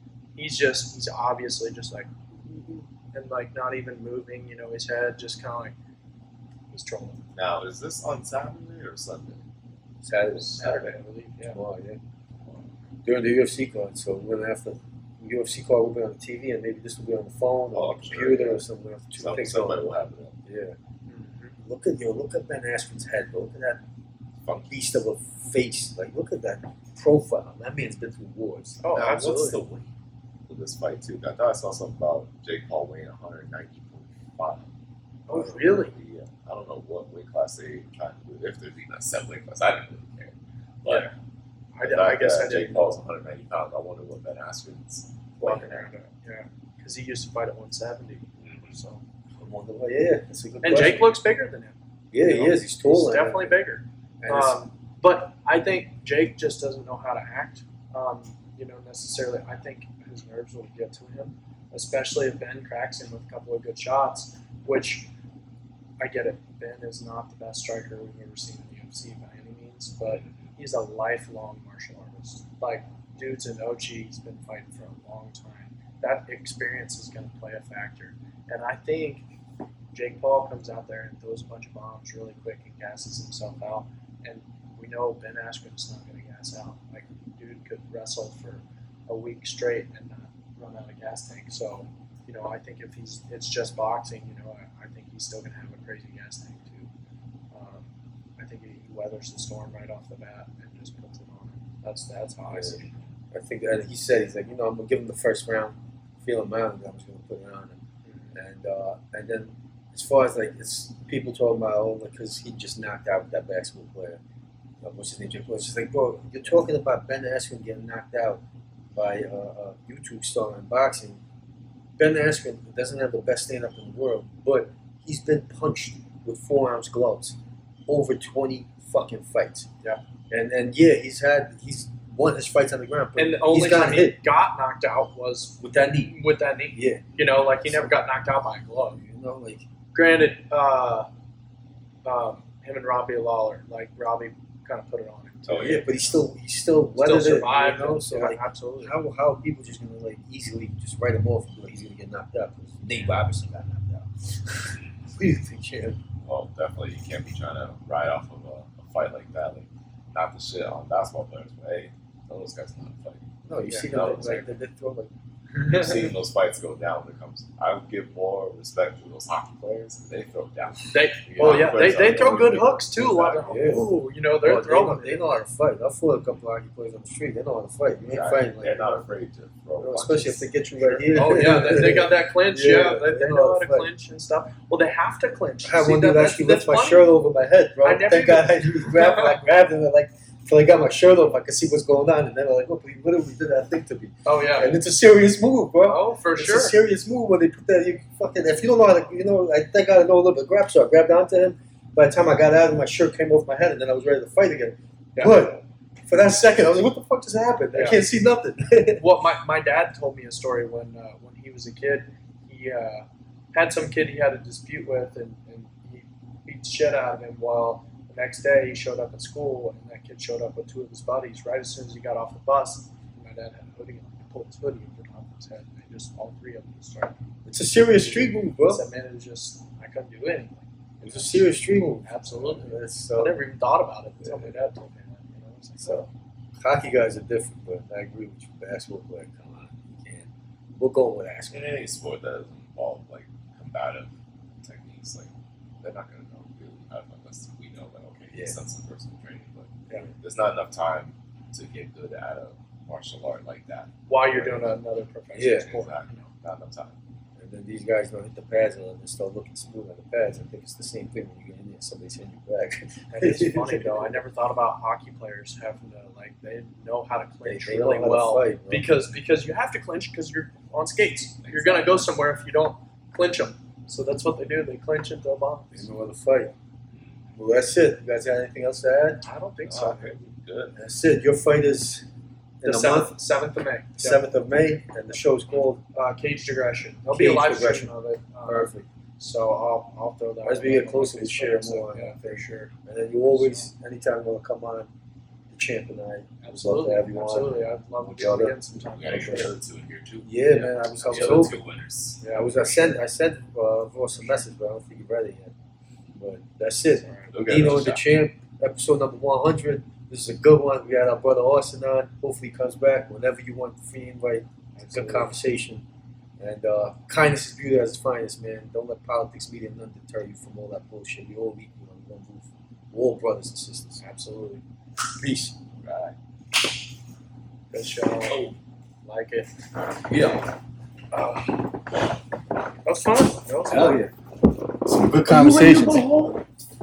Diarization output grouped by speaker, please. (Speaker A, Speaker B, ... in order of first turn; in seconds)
Speaker A: 0.4-5.7, 6.7-7.2, 10.4-11.6, 21.1-21.6, 28.8-29.6, 35.3-35.9, 40.9-41.1, 41.8-42.9, 45.4-49.0, 50.6-65.1, 66.0-79.2, 79.9-96.9, 97.5-102.9, 108.0-108.4, 133.2-139.0, 139.9-141.1, 142.1-145.9, 147.0-148.9, 163.6-164.4, 165.5-166.1, 170.9-175.2, 181.1-187.1, 187.8-189.4, 194.2-194.8, 195.8-196.8, 207.7-208.0, 208.9-227.1, 228.0-231.4, 232.1-236.1, 254.1-256.3, 263.1-275.9, 279.2-280.2, 282.6-284.2, 285.9-292.7, 293.3-293.7, 296.4-299.5, 302.2-303.0, 307.0-307.3, 314.8-315.4, 324.0-324.6, 327.7-328.5, 329.1-329.6, 331.1-331.5, 332.9-334.0
Speaker B: 7.3-9.4, 10.6-11.0, 17.7-18.6, 19.2-20.4, 24.4-25.0, 28.8-29.9, 30.5-34.7, 35.3-41.1, 41.8-45.9, 48.4-48.8, 70.0-70.5, 145.5-146.0, 156.2-163.2, 163.8-164.5, 165.7-173.0, 178.1-181.3, 241.5-244.1, 244.6-245.3, 245.8-254.8, 255.3-256.9, 271.4-272.1, 276.9-277.2, 279.6-280.8, 298.9-302.2, 307.3-308.0, 325.8-326.1, 328.3-328.5, 330.1-330.5, 335.3-336.4
Speaker C: 10.0-10.8, 11.5-12.0, 13.0-19.8, 20.5-20.8, 21.6-23.8, 24.7-28.8, 49.4-51.2, 52.1-53.6, 54.2-54.6, 102.5-102.8, 103.3-107.8, 108.3-114.2, 114.8-118.4, 118.9-121.2, 122.0-129.7, 130.3-134.2, 135.6-136.2, 136.7-137.9, 138.9-139.7, 145.6-156.0, 163.5-165.1, 171.4-179.1, 179.8-183.9, 185.6-209.1, 227.5-228.8, 231.0-233.4, 234.2-234.5, 236.6-241.8, 248.3-248.6, 255.4-255.7, 257.4-264.2, 267.4-268.9, 275.8-276.5, 277.3-279.2, 280.8-282.1, 282.6-283.1, 284.0-285.8, 287.1-287.9, 288.4-288.9, 290.4-294.9, 295.5-298.6, 300.2-301.6, 302.2-305.5, 306.2-315.8, 316.4-324.0, 325.2-325.6, 333.7-334.1, 334.8-336.1